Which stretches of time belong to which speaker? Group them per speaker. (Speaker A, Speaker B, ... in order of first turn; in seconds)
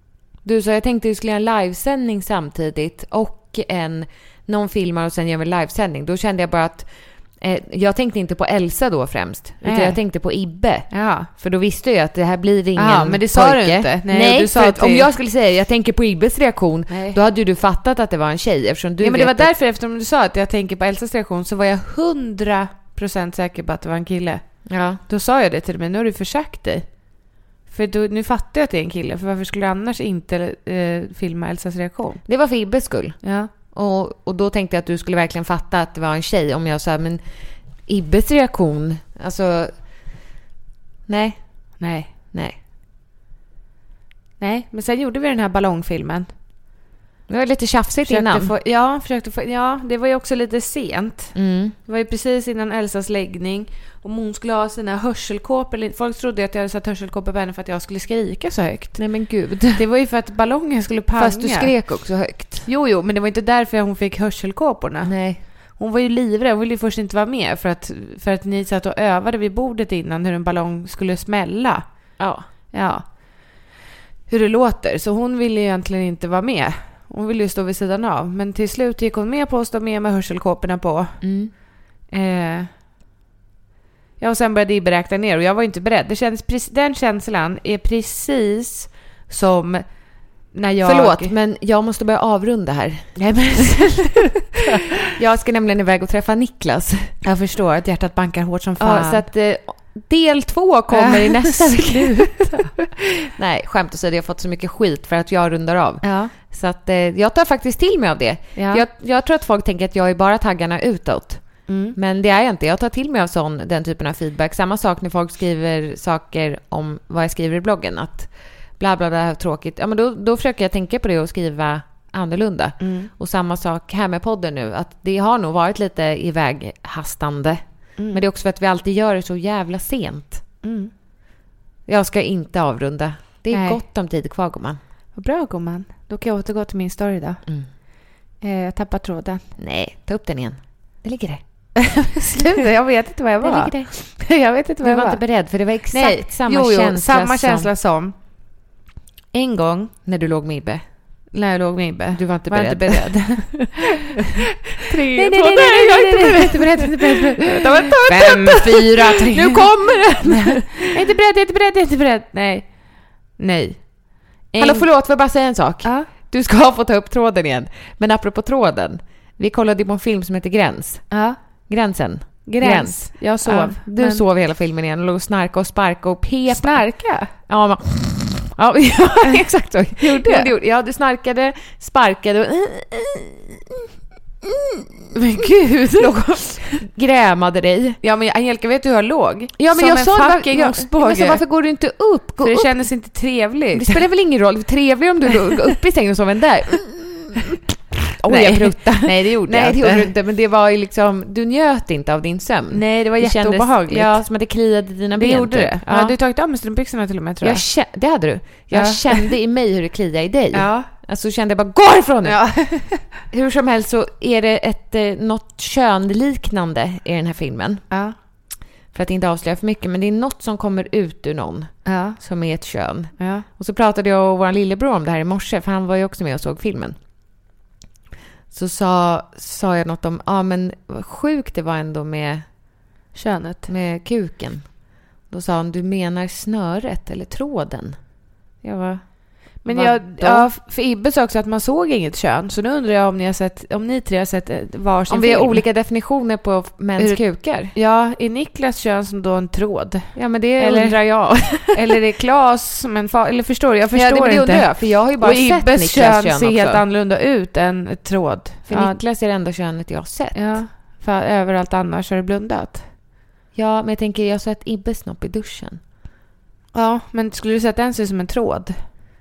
Speaker A: 0.4-19.5, 24.6-25.0, 32.2-37.2, 37.8-39.7, 41.1-42.5, 47.3-48.5, 51.3-51.7, 59.0-59.9, 61.1-62.7, 65.0-65.4, 72.2-72.5, 81.2-81.5, 90.8-93.8, 95.1-97.1, 98.8-102.7, 103.3-130.4, 131.8-134.8, 139.6-141.4, 143.4-144.2, 144.8-147.7, 150.1-150.8, 152.1-153.7, 155.0-160.9, 164.6-183.8, 184.4-185.4, 186.0-188.0, 189.6-192.9, 193.7-197.5, 198.2-206.2, 207.4-217.8, 218.9-227.0, 228.5-232.5, 233.7-238.0, 238.6-240.5, 245.1-247.7, 250.1-251.8, 253.9-256.8, 258.7-260.6, 263.5-265.8
Speaker B: 9.6-10.0, 10.9-11.3, 12.8-15.1, 16.9-17.2, 19.0-27.1, 27.6-32.2, 33.2-33.5, 41.8-42.1, 44.4-46.3, 48.0-73.6, 74.3-81.2, 82.1-82.7, 84.2-91.3, 93.2-94.5, 97.2-99.2, 100.9-102.7, 106.0-106.3, 108.5-108.8, 111.7-112.0, 122.8-123.1, 128.0-128.2, 130.6-130.9, 133.5-133.8, 135.1-137.4, 138.4-139.5, 142.1-145.2, 145.9-148.1, 149.3-149.9, 151.3-153.8, 154.9-164.9, 165.8-166.1, 171.1-171.4, 172.4-174.2, 176.5-177.3, 180.0-180.5, 185.1-186.7, 188.0-191.4, 192.4-194.0, 198.2-200.1, 202.7-204.2, 205.1-207.7, 208.7-209.3, 210.5-210.9, 212.2-213.2, 217.9-218.1, 221.8-222.2, 223.2-223.4, 233.1-233.7, 239.6-245.6, 247.0-259.0, 260.3-262.9, 266.7-268.8